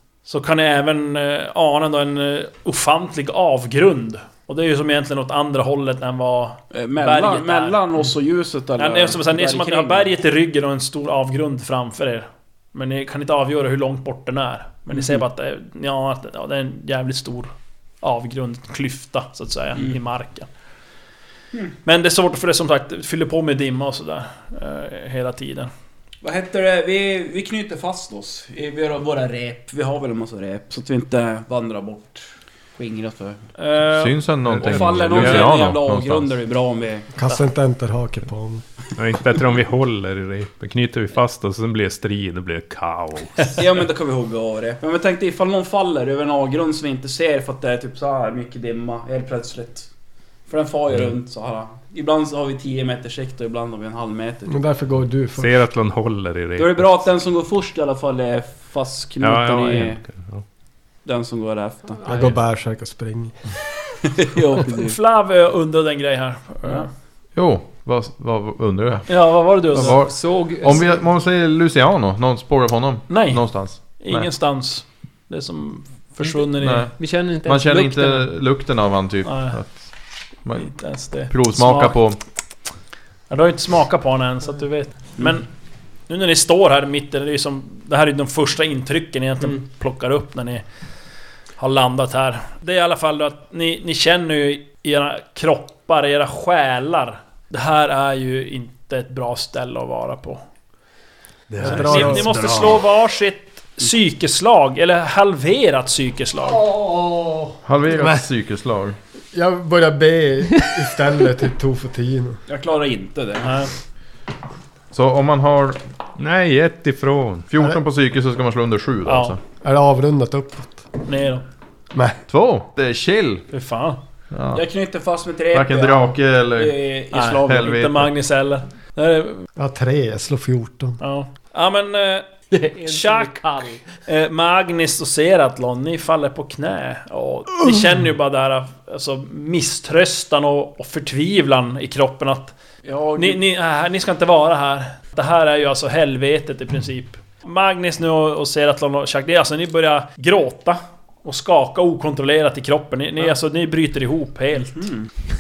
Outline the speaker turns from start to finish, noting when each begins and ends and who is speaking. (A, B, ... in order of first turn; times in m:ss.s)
0:00.2-0:07.8 A
0:06.7-0:10.1 B
0:08.8-0:20.5 A
0:14.9-0:15.2 B
0:21.8-0:25.7 A
0:26.2-0:32.2 B
0:32.8-0:33.4 B
0:33.6-0:34.2 A
0:33.9-0:36.4 C
0:34.5-0:37.1 B
0:37.2-0:38.6 D
0:38.9-0:43.6 E
0:43.5-0:49.9 B
0:50.5-0:54.5 B
0:54.5-0:55.7 D
0:55.4-0:57.0 E
0:56.6-1:00.0 B
0:59.2-1:00.4 E
1:01.0-1:02.3 B
1:02.0-1:03.3 D
1:04.2-1:05.0 B
1:04.8-1:06.9 A
1:07.3-1:14.3 C
1:09.1-1:10.0 A
1:10.0-1:10.8 F
1:13.1-1:16.8 A
1:16.5-1:22.2 C
1:17.0-1:18.3 F
1:19.2-1:19.6 A
1:20.6-1:22.0 A
1:23.3-1:25.5 A
1:26.1-1:30.6 A
1:31.6-1:40.4 A
1:41.5-1:42.8 E
1:41.6-1:42.8 D
1:41.6-1:46.6 A
1:46.6-1:47.6 D
1:47.6-1:49.0 C
1:49.3-1:52.4 D
1:52.5-1:53.7 B
1:53.4-1:53.7 A
1:54.9-1:55.8 C
1:56.2-1:57.5 E
1:57.5-1:59.4 C
1:59.0-1:59.4 A
1:59.6-2:00.9 D
2:01.0-2:01.4 A
2:01.9-2:02.2 D
2:02.3-2:03.4 C
2:03.5-2:04.0 A
2:04.3-2:04.6 C
2:04.5-2:07.7 B
2:05.5-2:08.1 C
2:07.1-2:09.5 A
2:09.6-2:11.0 D
2:11.0-2:12.3 A
2:12.5-2:13.8 F
2:12.8-2:22.5 A
2:22.8-2:23.4 B
2:23.2-2:34.8 A
2:34.6-2:35.1 B